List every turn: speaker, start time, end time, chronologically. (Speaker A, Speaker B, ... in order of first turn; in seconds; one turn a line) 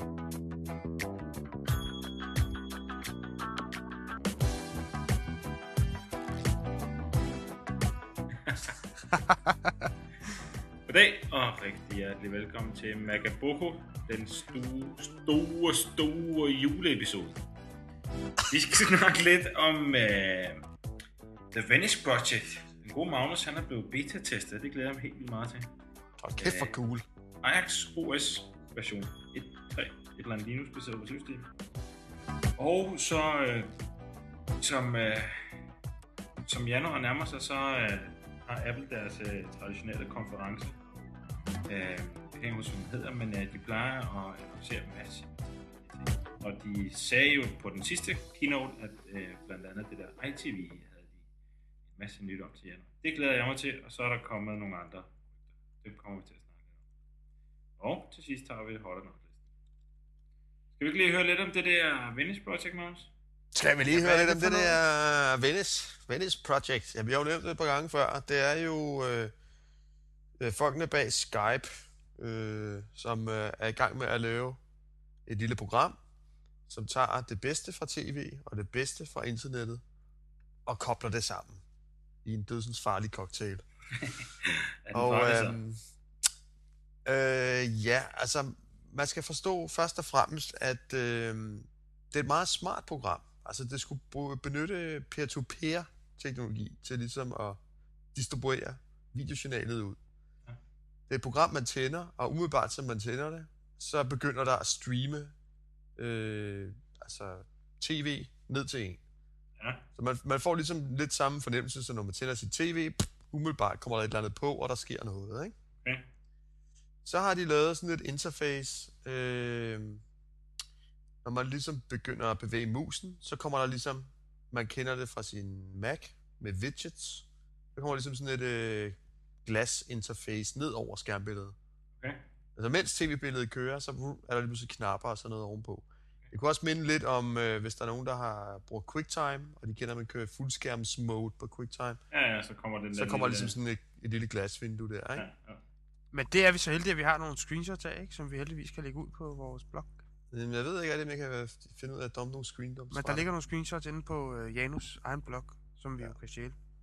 Speaker A: 8.4-8.8
Speaker B: 9.1-9.7
Speaker A: 10.9-17.4
Speaker A: 18.5-20.6
Speaker A: 21.5-25.7
Speaker C: 26.2-27.1
Speaker A: 26.4-26.8
Speaker A: 27.4-31.5
Speaker A: 32.6-33.7
Speaker A: 34.6-35.6
Speaker A: 36.4-40.8
Speaker A: 41.7-51.2
Speaker A: 51.9-55.2
Speaker A: 55.8-56.6
Speaker A: 57.8-59.4
Speaker A: 60.8-63.1
Speaker C: 63.5-69.3
Speaker A: 63.9-64.6
Speaker B: 64.1-64.5
Speaker C: 70.4-74.6
Speaker C: 75.3-76.0
Speaker C: 76.7-79.8
Speaker C: 80.7-81.6
Speaker C: 82.2-83.6
Speaker A: 84.0-85.6
Speaker C: 84.9-85.8
Speaker C: 87.0-97.6
Speaker C: 98.1-100.0
Speaker C: 101.1-105.3
Speaker C: 106.0-109.0
Speaker A: 109.6-109.8
Speaker C: 110.0-115.5
Speaker C: 117.0-120.0
Speaker C: 121.2-131.6
Speaker C: 132.6-142.0
Speaker A: 142.1-143.6
Speaker C: 142.9-145.2
Speaker A: 145.2-145.6
Speaker B: 146.1-150.0
Speaker C: 150.3-153.3
Speaker B: 152.9-156.6